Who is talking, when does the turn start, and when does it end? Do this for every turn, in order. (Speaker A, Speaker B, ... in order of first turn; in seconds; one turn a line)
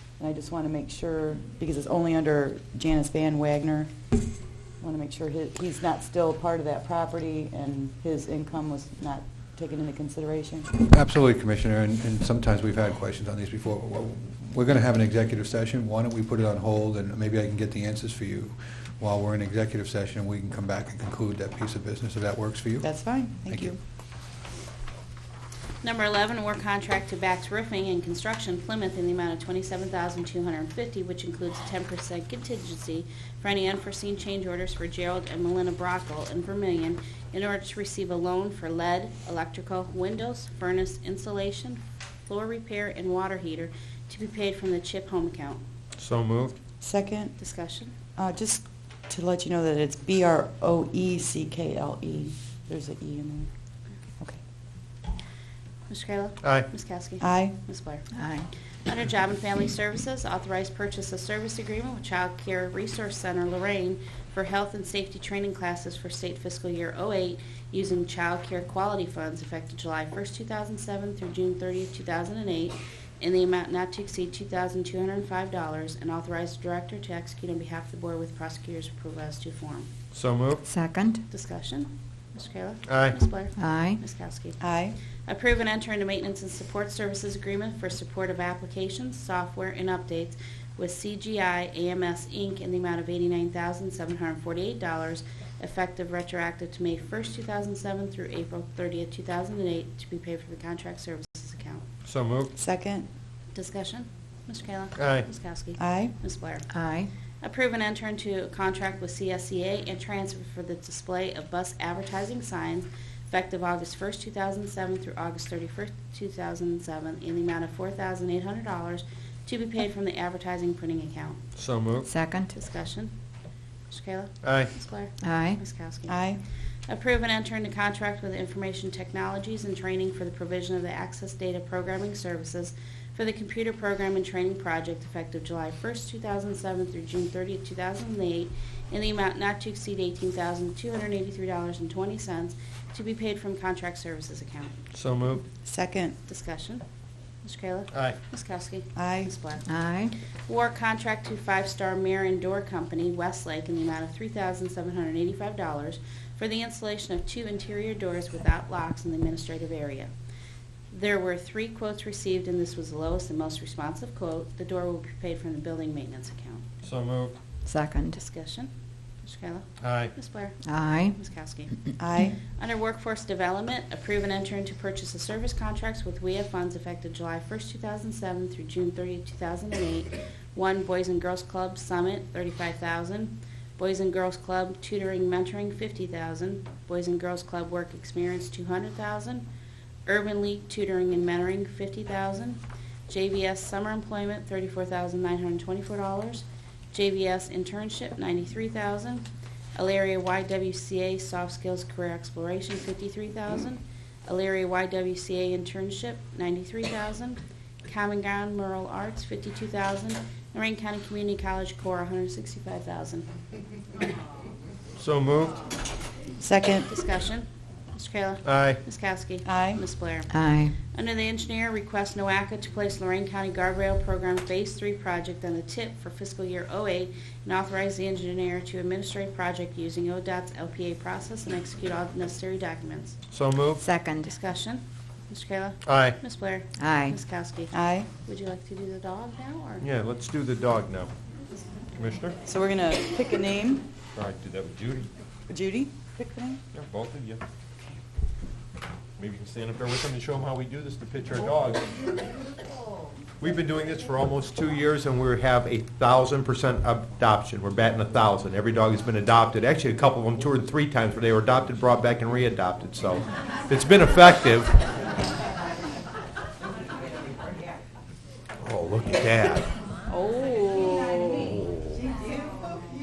Speaker A: 0.2-3.9
Speaker A: 4.8-10.7
Speaker B: 10.9-22.9
Speaker A: 22.8-23.8
Speaker B: 23.5-23.7
Speaker C: 25.8-45.6
Speaker D: 46.0-46.5
Speaker A: 46.8-47.3
Speaker C: 47.4-47.9
Speaker A: 48.1-53.5
Speaker C: 55.9-58.1
Speaker D: 56.4-56.7
Speaker A: 57.2-57.5
Speaker E: 58.2-58.5
Speaker C: 58.9-79.9
Speaker D: 80.1-80.6
Speaker E: 80.7-81.2
Speaker C: 81.3-84.6
Speaker D: 82.9-83.2
Speaker E: 83.6-84.0
Speaker A: 84.6-85.0
Speaker C: 85.2-101.8
Speaker D: 102.0-102.5
Speaker A: 102.5-103.0
Speaker C: 103.5-106.7
Speaker D: 105.0-105.3
Speaker A: 105.8-106.1
Speaker E: 106.7-107.1
Speaker C: 107.4-121.4
Speaker D: 121.5-122.1
Speaker E: 122.1-122.5
Speaker C: 122.5-123.1
Speaker C: 123.9-126.2
Speaker D: 124.4-124.7
Speaker E: 125.2-125.6
Speaker A: 126.1-126.4
Speaker C: 126.9-144.8
Speaker D: 144.9-145.4
Speaker A: 145.6-146.2
Speaker C: 146.3-146.8
Speaker C: 147.4-149.6
Speaker D: 147.9-148.2
Speaker A: 148.9-149.3
Speaker E: 149.7-150.1
Speaker C: 150.4-160.1
Speaker C: 160.9-166.6
Speaker D: 166.8-167.3
Speaker E: 167.7-168.1
Speaker C: 168.1-168.7
Speaker C: 169.2-171.7
Speaker D: 169.8-170.1
Speaker E: 170.7-171.1
Speaker A: 172.0-172.4
Speaker C: 172.5-189.5
Speaker C: 190.1-213.3
Speaker D: 214.9-215.6
Speaker A: 216.4-216.9
Speaker C: 216.9-220.3
Speaker D: 218.4-218.8
Speaker A: 219.4-219.8
Speaker E: 220.4-220.7
Speaker C: 220.9-233.2
Speaker D: 233.3-233.8
Speaker E: 233.8-234.2
Speaker C: 234.2-237.7
Speaker D: 235.8-236.2
Speaker E: 236.8-237.1
Speaker A: 237.7-238.1
Speaker C: 238.2-239.8
Speaker D: 239.8-241.1
Speaker D: 241.9-242.4
Speaker A: 242.4-243.8
Speaker D: 244.1-245.1
Speaker A: 245.5-246.6
Speaker D: 246.7-247.4
Speaker D: 249.2-252.0
Speaker D: 253.4-264.8
Speaker D: 268.6-269.7
Speaker D: 271.2-272.1